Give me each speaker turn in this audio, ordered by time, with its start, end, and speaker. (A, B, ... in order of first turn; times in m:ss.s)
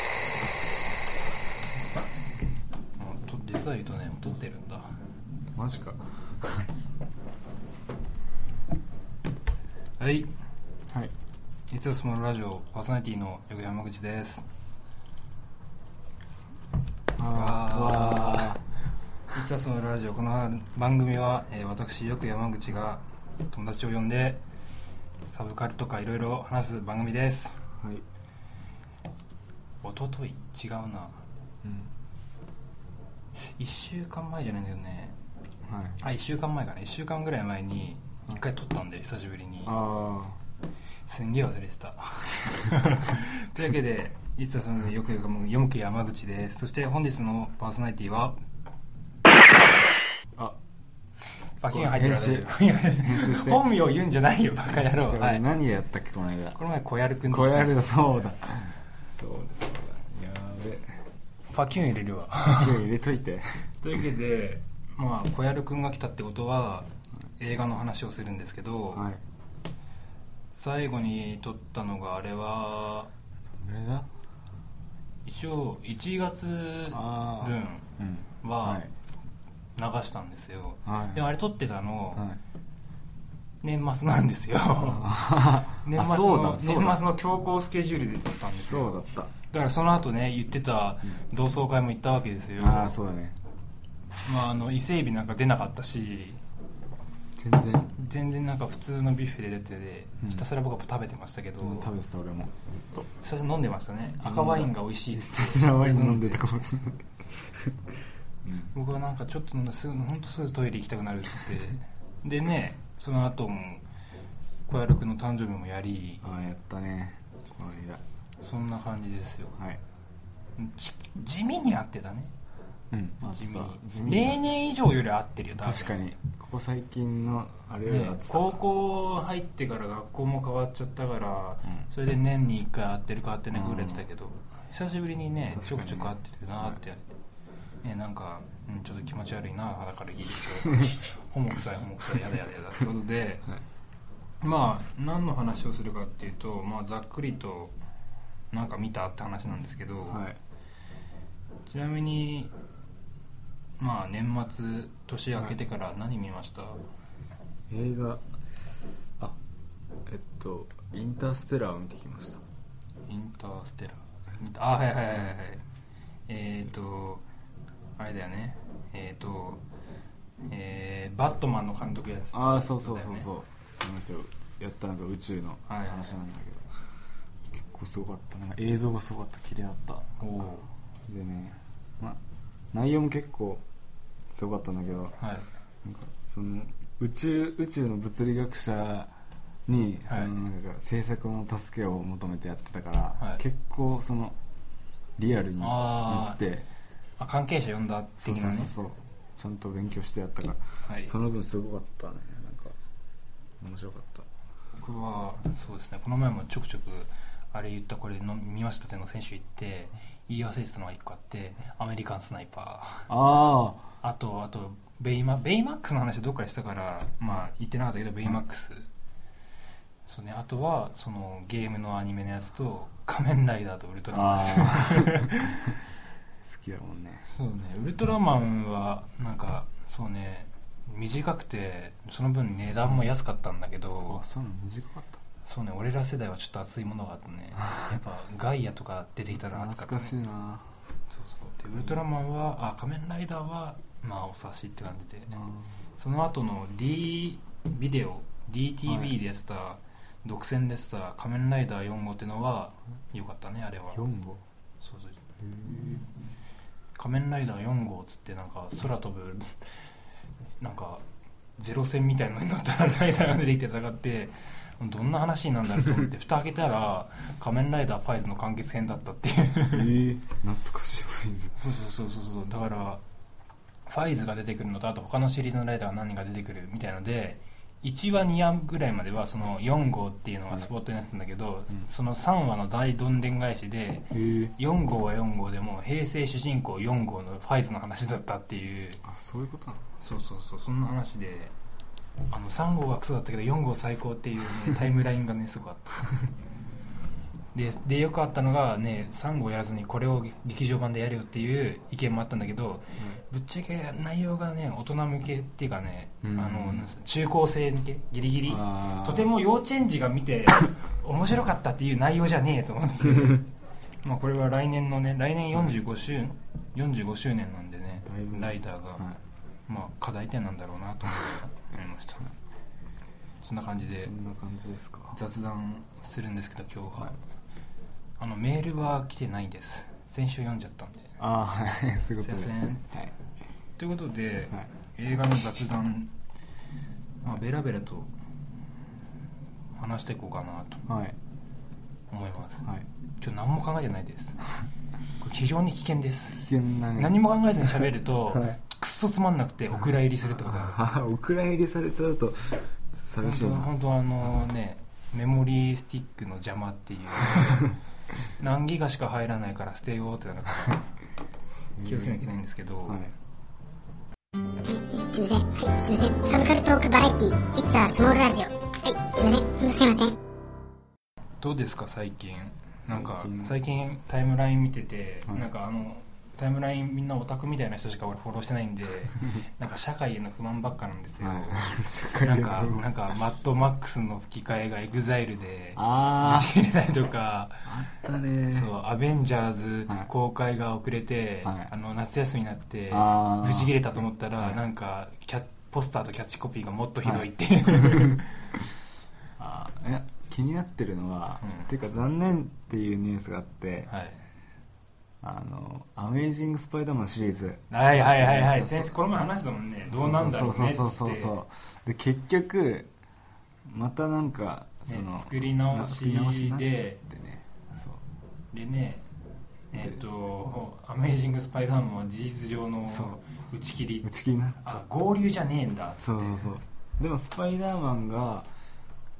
0:03.0-0:04.9 A
0:05.5-0:06.7 B
0:10.0-0:10.3 A
0:11.7-0:14.4 A
0:17.2-0:18.6 B
0:17.3-0:18.6 A
0:19.3-0:24.4 A
0:25.3-0:27.6 A
0:27.8-0:28.0 B
0:29.8-0:31.2 A
0:31.6-0:31.9 B
0:33.4-0:35.2 A
0:35.7-0:36.0 B
0:36.0-0:39.7 A
0:39.6-0:40.4 B
0:41.1-0:48.4 A
0:51.6-0:55.4 A
0:51.7-0:53.6 B
0:54.7-0:56.6 B
0:56.5-0:57.8 A
0:57.2-1:01.0 B
1:01.5-1:02.8 A
1:02.5-1:03.7 B
1:03.8-1:09.1 A
1:08.9-1:09.2 B
1:10.5-1:13.1 A
1:13.6-1:14.1 B
1:15.2-1:17.9 A
1:16.9-1:18.9 B
1:18.4-1:18.8 A
1:19.8-1:22.2 A
1:20.8-1:21.3 B
1:22.1-1:22.4 B
1:23.6-1:25.1 A
1:24.8-1:27.0 B
1:25.8-1:33.0 A
1:28.6-1:29.3 B
1:32.6-1:33.4 B
1:34.2-1:36.4 A
1:37.4-1:38.0 B
1:37.9-1:41.9 A
1:40.2-1:40.5 B
1:41.6-1:43.1 B
1:43.2-1:46.6 A
1:44.2-1:47.9 B
1:48.4-1:48.7 B
1:48.7-1:53.8 A
1:54.7-1:56.2 A
1:56.2-1:58.0 B
1:58.4-1:59.6 A
2:00.6-2:02.3 A
2:02.9-2:04.4 B
2:03.3-2:06.1 A
2:05.6-2:08.6 B
2:07.8-2:17.0 A
2:13.5-2:14.0 B
2:15.5-2:16.7 B
2:17.8-2:23.5 A
2:24.4-2:27.7 A
2:28.5-2:30.3 A
2:30.1-2:30.4 B
2:31.7-2:32.5 A
2:33.8-2:36.8 A
2:37.7-2:39.4 B
2:40.0-2:42.4 B
2:43.0-2:45.6 A
2:46.3-2:47.2 A
2:48.0-2:49.6 A
2:50.5-2:53.3 A
2:52.3-2:56.7 B
2:55.7-2:56.1 A
2:57.5-3:00.1 B
3:00.2-3:00.7 A
3:01.0-3:02.2 B
3:02.7-3:03.6 B
3:04.3-3:05.2 B
3:05.2-3:05.5 A
3:05.8-3:09.1 B
3:09.7-3:14.4 B
3:10.1-3:10.3 A
3:15.2-3:16.7 B
3:15.6-3:16.4 A
3:17.2-3:18.7 A
3:18.2-3:22.8 B
3:20.8-3:21.1 A
3:23.6-3:24.3 B
3:24.8-3:33.1 A
3:33.1-3:33.8 B
3:34.0-3:38.9 A
3:40.0-3:45.8 A
3:44.1-3:45.7 B
3:46.4-3:47.3 B
3:47.3-3:54.2 A
3:54.0-3:55.2 B
3:55.4-4:00.2 A
3:59.3-4:00.8 B
4:01.1-4:05.4 A
4:05.3-4:05.7 B
4:06.0-4:14.0 A
4:08.8-4:09.1 B
4:13.9-4:14.4 B
4:14.8-4:15.2 A
4:15.4-4:16.1 B
4:17.0-4:19.8 A
4:20.6-4:21.0 A
4:21.6-4:29.9 A
4:29.7-4:31.6 B
4:31.6-4:33.0 A
4:33.9-4:49.0 A
4:44.1-4:44.5 B
4:49.0-4:49.8 B
4:50.0-4:51.5 A
4:52.3-4:56.2 A
4:57.5-5:13.5 A
5:06.2-5:06.9 B
5:08.5-5:09.3 B
5:13.1-5:13.4 B
5:14.0-5:19.0 A
5:18.0-5:19.2 B
5:19.7-5:22.3 A
5:23.4-5:24.1 A
5:24.0-5:25.2 B
5:25.1-5:27.2 A
5:28.2-5:31.2 A
5:31.2-5:33.1 B
5:32.2-5:33.0 A
5:33.8-5:36.1 A
5:37.2-5:38.1 A
5:39.8-5:40.8 A
5:40.9-5:41.2 B
5:42.1-5:42.6 A
5:43.2-5:44.4 A
5:45.2-5:46.4 A
5:46.3-5:48.6 B
5:46.9-5:50.9 A
5:50.3-5:53.7 B
5:53.2-5:57.7 A
5:58.3-6:00.9 A
6:01.8-6:02.2 B
6:01.8-6:03.0 A
6:02.8-6:03.1 B
6:04.7-6:10.1 C
6:11.4-6:27.7 A
6:12.8-6:13.6 B
6:21.2-6:22.9 B
6:25.8-6:26.5 B
6:27.6-6:28.7 B
6:28.5-6:38.6 A
6:31.4-6:31.7 B
6:32.9-6:33.8 B
6:37.0-6:38.2 B
6:39.4-6:43.9 B
6:43.9-6:44.2 A
6:45.2-6:49.0 B
6:47.7-6:51.3 A
6:49.9-6:52.9 B
6:53.6-6:58.0 B
6:54.9-6:57.0 A
6:58.5-6:59.1 A
6:59.7-7:04.1 A
7:02.9-7:03.2 B
7:04.0-7:04.8 B
7:04.6-7:06.5 A
7:06.0-7:08.5 B